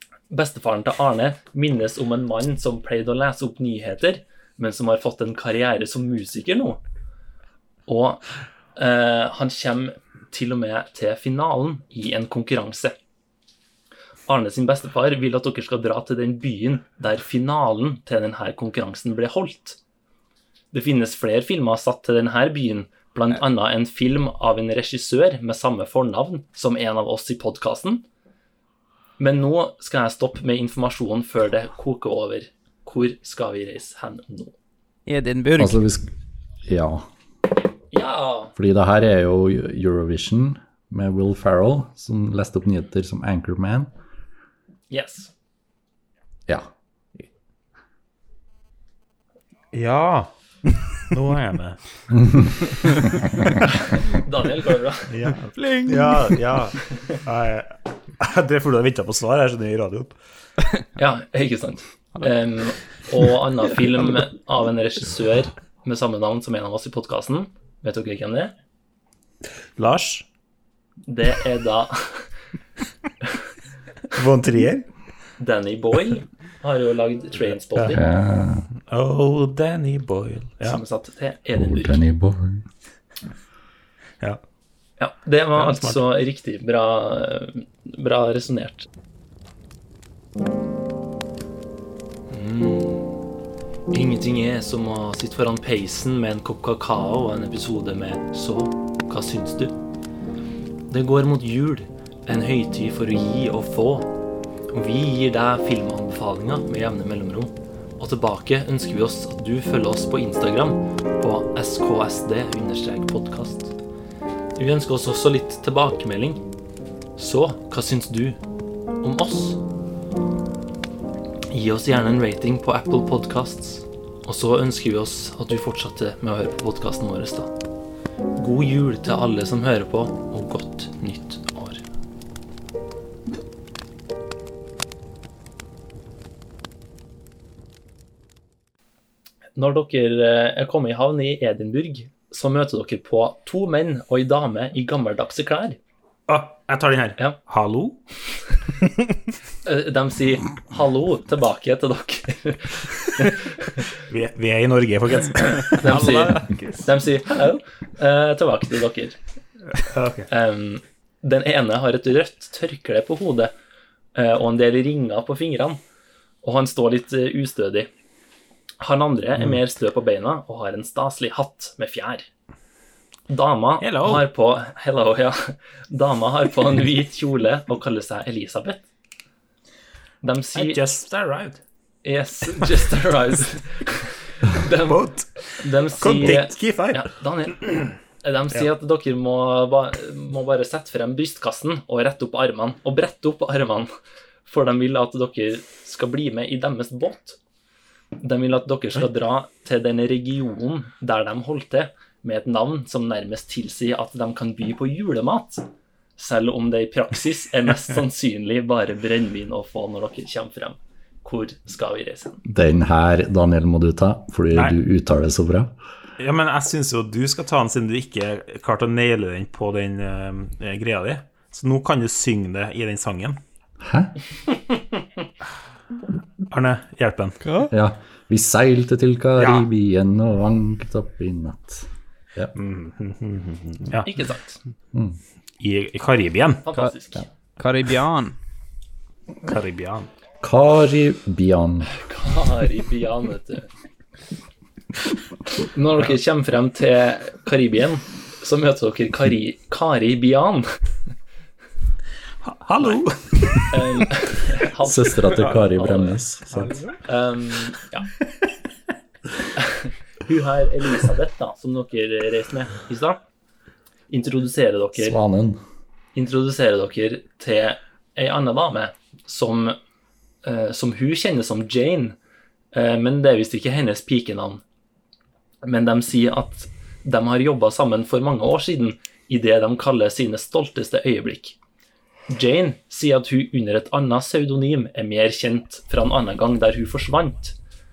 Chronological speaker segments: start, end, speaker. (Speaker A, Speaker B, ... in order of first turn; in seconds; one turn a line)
Speaker A: 0.3-6.8
Speaker A: 7.9-8.2
Speaker A: 8.8-13.0
Speaker A: 14.3-19.8
Speaker A: 20.7-28.0
Speaker A: 29.2-34.5
Speaker B: 35.1-35.8
Speaker C: 35.6-36.1
Speaker C: 36.7-37.1
Speaker A: 37.9-38.5
Speaker C: 38.6-43.9
Speaker A: 44.9-45.3
Speaker D: 49.7-51.8
Speaker C: 52.1-52.8
Speaker A: 54.0-55.1
Speaker D: 55.1-60.2
Speaker B: 55.5-56.4
Speaker A: 61.0-68.5
Speaker D: 69.8-70.2
Speaker A: 71.1-72.2
Speaker D: 74.1-74.9
Speaker A: 75.4-78.1
Speaker C: 77.9-78.7
Speaker D: 78.9-80.8
Speaker A: 80.6-82.0
Speaker C: 81.6-82.7
Speaker A: 85.0-88.9
Speaker D: 85.6-86.0
Speaker A: 92.3-93.2
Speaker A: 93.9-99.8
Speaker A: 100.9-104.1
Speaker A: 104.7-113.8
Speaker A: 114.6-116.4
Speaker A: 117.2-118.4
Speaker A: 119.0-119.6
Speaker A: 121.5-127.5
Speaker A: 128.4-131.8
Speaker A: 139.6-145.8
Speaker D: 146.3-148.0
Speaker A: 149.6-153.8
Speaker D: 153.9-156.9
Speaker A: 155.8-159.2
Speaker B: 155.9-156.4
Speaker D: 159.8-160.3
Speaker A: 160.3-163.5
Speaker A: 164.2-165.8
Speaker A: 166.4-167.9
Speaker A: 168.8-172.3
Speaker A: 173.3-178.9
Speaker D: 173.8-174.2
Speaker A: 180.2-181.0
Speaker D: 180.6-181.6
Speaker A: 182.0-193.9
Speaker D: 184.8-187.1
Speaker A: 194.4-197.4
Speaker A: 198.2-212.4
Speaker C: 212.4-215.7
Speaker D: 216.2-223.4
Speaker C: 223.8-224.1
Speaker D: 226.5-227.4
Speaker B: 227.4-227.7
Speaker C: 227.7-232.6
Speaker D: 229.4-229.7
Speaker D: 232.6-234.1
Speaker A: 234.1-234.6
Speaker C: 234.9-235.2
Speaker D: 235.6-236.6
Speaker A: 236.6-237.3
Speaker B: 237.6-238.4
Speaker D: 239.4-240.1
Speaker C: 240.4-241.9
Speaker A: 241.9-243.7
Speaker A: 245.6-250.7
Speaker D: 252.4-254.1
Speaker A: 253.7-256.2
Speaker C: 254.8-256.8
Speaker D: 256.5-257.0
Speaker A: 257.1-258.1
Speaker A: 259.6-263.2
Speaker A: 264.1-265.2
Speaker C: 265.0-265.6
Speaker A: 266.1-269.8
Speaker A: 270.4-272.2
Speaker A: 272.7-274.6
Speaker A: 275.6-281.6
Speaker A: 282.3-287.6